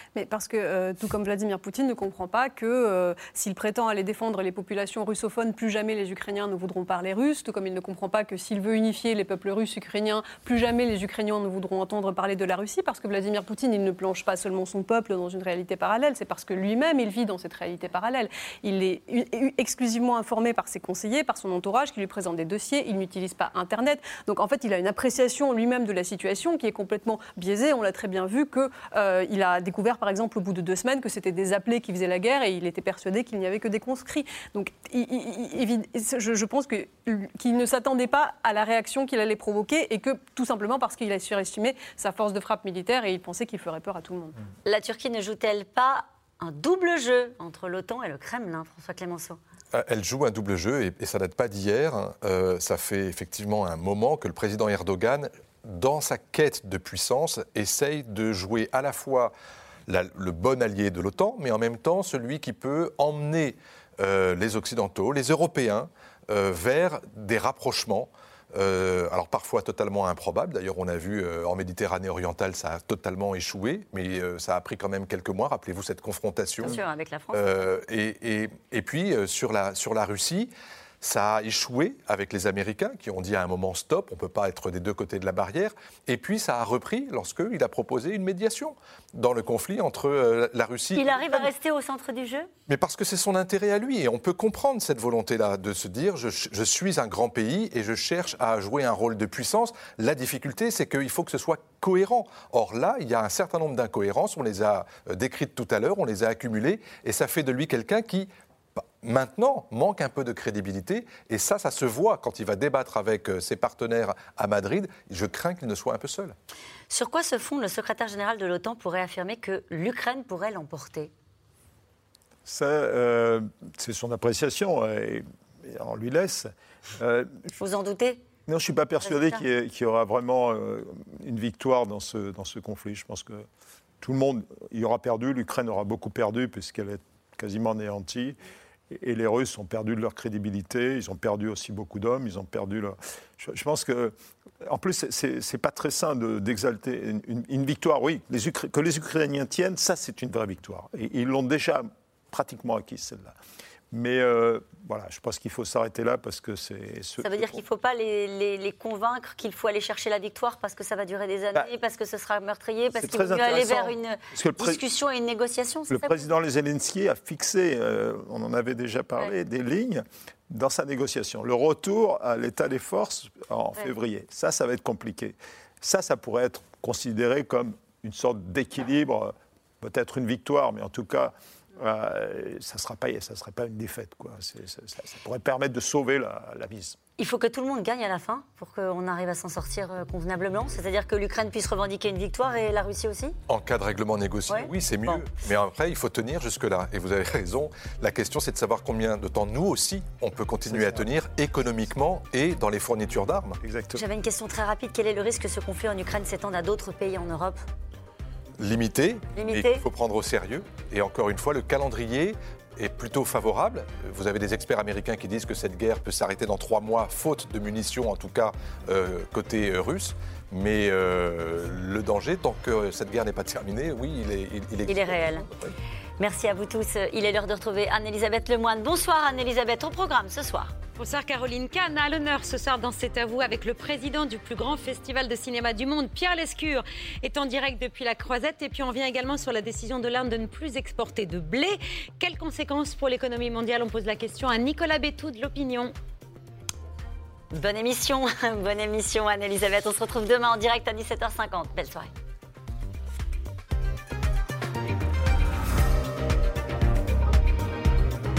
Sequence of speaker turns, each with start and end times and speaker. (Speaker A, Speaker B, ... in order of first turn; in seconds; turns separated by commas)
Speaker A: 0.1-44.4, Speaker B: 44.7-49.4, Speaker C: 49.7-59.3, Speaker C: 59.9-76.8, Speaker B: 76.6-77.7, Speaker C: 77.3-91.5, Speaker B: 91.0-92.5, Speaker C: 92.7-116.4, Speaker B: 116.9-121.1, Speaker D: 122.5-127.5, Speaker B: 127.6-128.2, Speaker D: 128.5-133.5, Speaker B: 129.0-129.4, Speaker D: 134.0-138.4, Speaker D: 138.9-144.1, Speaker D: 144.7-153.4, Speaker D: 153.9-157.6, Speaker B: 157.2-166.2, Speaker D: 163.0-164.8, Speaker D: 165.9-187.0, Speaker B: 187.2-193.4, Speaker C: 193.5-203.6, Speaker B: 194.5-195.2, Speaker D: 200.7-201.1, Speaker D: 203.6-204.0, Speaker B: 203.9-207.6, Speaker C: 208.6-225.6, Speaker B: 209.4-209.8, Speaker B: 224.9-225.4, Speaker B: 226.2-230.7, Speaker E: 231.0-245.9, Speaker B: 247.5-252.1